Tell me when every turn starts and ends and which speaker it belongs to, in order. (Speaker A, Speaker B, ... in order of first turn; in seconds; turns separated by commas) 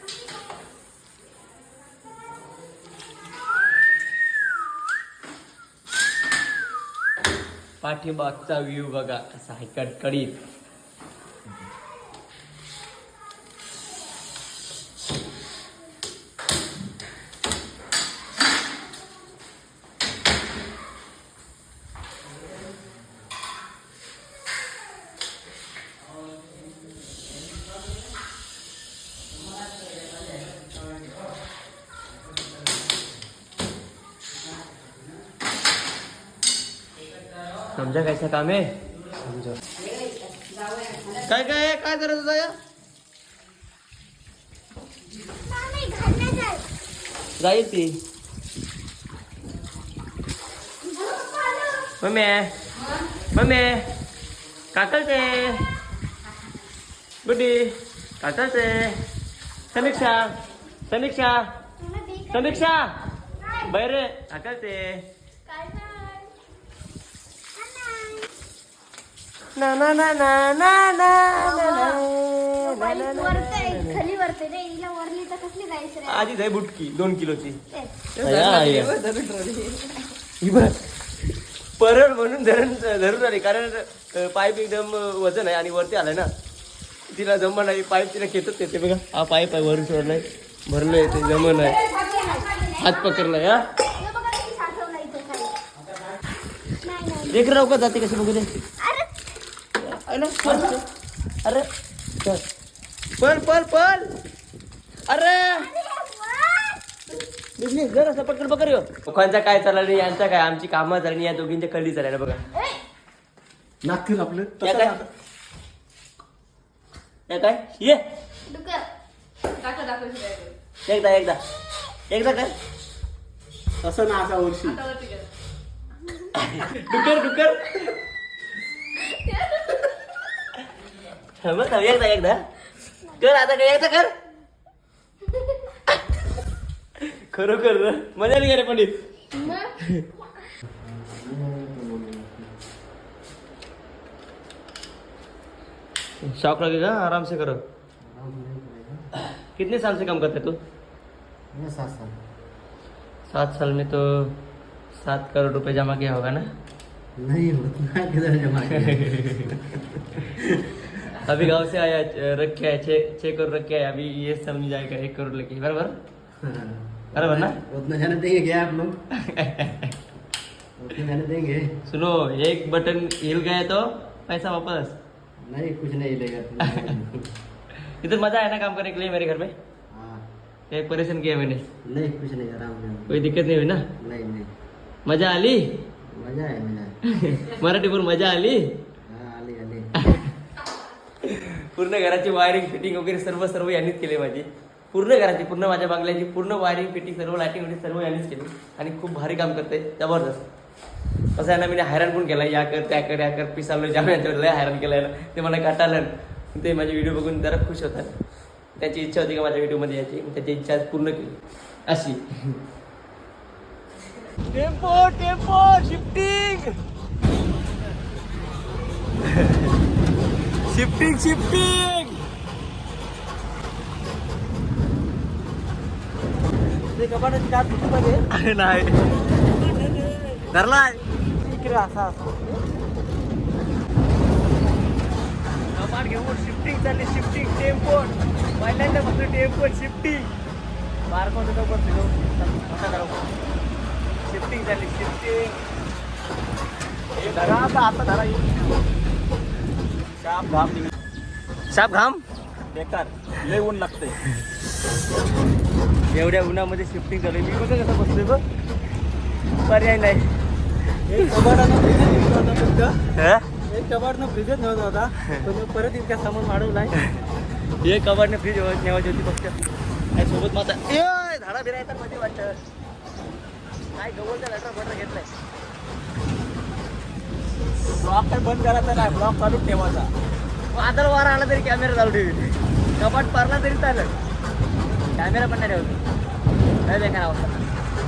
Speaker A: 7.8-10.4, Speaker A: 37.7-38.8, Speaker B: 40.1-41.0, Speaker A: 41.1-42.5, Speaker C: 45.4-46.6, Speaker A: 47.4-48.0, Speaker C: 50.8-51.9, Speaker A: 52.0-52.5, Speaker A: 53.3-53.9, Speaker A: 54.7-55.6, Speaker A: 57.2-59.0, Speaker A: 59.7-60.3, Speaker A: 60.9-61.5, Speaker C: 61.8-62.6, Speaker A: 62.3-62.9, Speaker C: 63.4-63.7, Speaker A: 63.7-65.0, Speaker C: 65.5-66.3, Speaker C: 67.5-68.3, Speaker A: 69.5-74.0, Speaker C: 71.4-72.0, Speaker C: 72.6-76.3, Speaker A: 76.0-77.6, Speaker C: 77.7-78.1, Speaker A: 78.2-79.0, Speaker B: 78.3-80.2, Speaker A: 80.4-80.8, Speaker A: 81.8-86.3, Speaker A: 87.1-91.8, Speaker C: 91.0-93.3, Speaker A: 92.8-93.6, Speaker C: 94.0-95.5, Speaker C: 96.8-97.5, Speaker A: 97.3-98.5, Speaker C: 98.8-99.1, Speaker A: 99.8-100.8, Speaker A: 103.2-104.1, Speaker A: 105.1-105.7, Speaker C: 105.5-106.9, Speaker A: 107.6-112.5, Speaker C: 112.5-112.8, Speaker D: 114.1-114.5, Speaker A: 114.6-115.0, Speaker A: 117.3-118.0, Speaker C: 118.5-118.9, Speaker B: 119.5-120.5, Speaker A: 120.9-121.4, Speaker A: 122.1-122.5, Speaker D: 123.8-124.7, Speaker B: 124.6-125.3, Speaker A: 126.4-128.0, Speaker B: 129.2-129.8, Speaker A: 131.4-132.4, Speaker A: 133.1-134.2, Speaker A: 137.0-138.9, Speaker A: 139.6-140.1, Speaker E: 140.6-142.5, Speaker A: 146.2-147.6, Speaker E: 148.0-149.1, Speaker A: 149.5-150.6, Speaker E: 151.5-152.1, Speaker A: 153.3-154.4, Speaker A: 155.0-156.5, Speaker E: 157.2-161.0, Speaker A: 158.8-159.6, Speaker A: 161.1-165.9, Speaker E: 166.4-169.0, Speaker A: 167.1-167.6, Speaker A: 169.2-169.9, Speaker E: 170.8-171.7, Speaker A: 171.9-175.0, Speaker E: 175.4-177.3, Speaker A: 176.6-177.0, Speaker A: 177.9-179.5, Speaker E: 179.9-180.2, Speaker A: 180.7-181.7, Speaker E: 181.8-183.2, Speaker A: 183.1-183.9, Speaker E: 184.0-184.5, Speaker A: 185.1-185.7, Speaker E: 186.1-186.9, Speaker A: 187.1-188.7, Speaker E: 189.1-189.9, Speaker A: 190.0-190.3, Speaker A: 191.2-200.4, Speaker A: 201.4-208.1, Speaker A: 208.8-211.4, Speaker A: 211.9-212.6, Speaker A: 214.5-216.8, Speaker A: 219.2-219.7, Speaker A: 220.7-222.2, Speaker A: 228.3-231.0, Speaker A: 231.6-231.9, Speaker A: 235.8-240.3, Speaker A: 241.1-243.2, Speaker A: 244.3-245.5, Speaker A: 247.2-248.3, Speaker D: 247.4-248.4, Speaker D: 250.2-250.9, Speaker A: 251.7-252.2, Speaker D: 252.7-254.1, Speaker A: 256.1-258.4, Speaker A: 259.6-260.4, Speaker A: 261.1-261.5, Speaker D: 261.1-262.9, Speaker A: 263.1-263.5, Speaker D: 263.7-266.9, Speaker A: 265.2-265.5, Speaker A: 266.9-267.2, Speaker A: 267.8-269.5, Speaker A: 270.1-272.6, Speaker A: 273.9-275.3, Speaker A: 278.0-279.9, Speaker D: 278.1-279.9, Speaker A: 280.7-284.1, Speaker A: 285.1-286.0, Speaker A: 286.9-287.6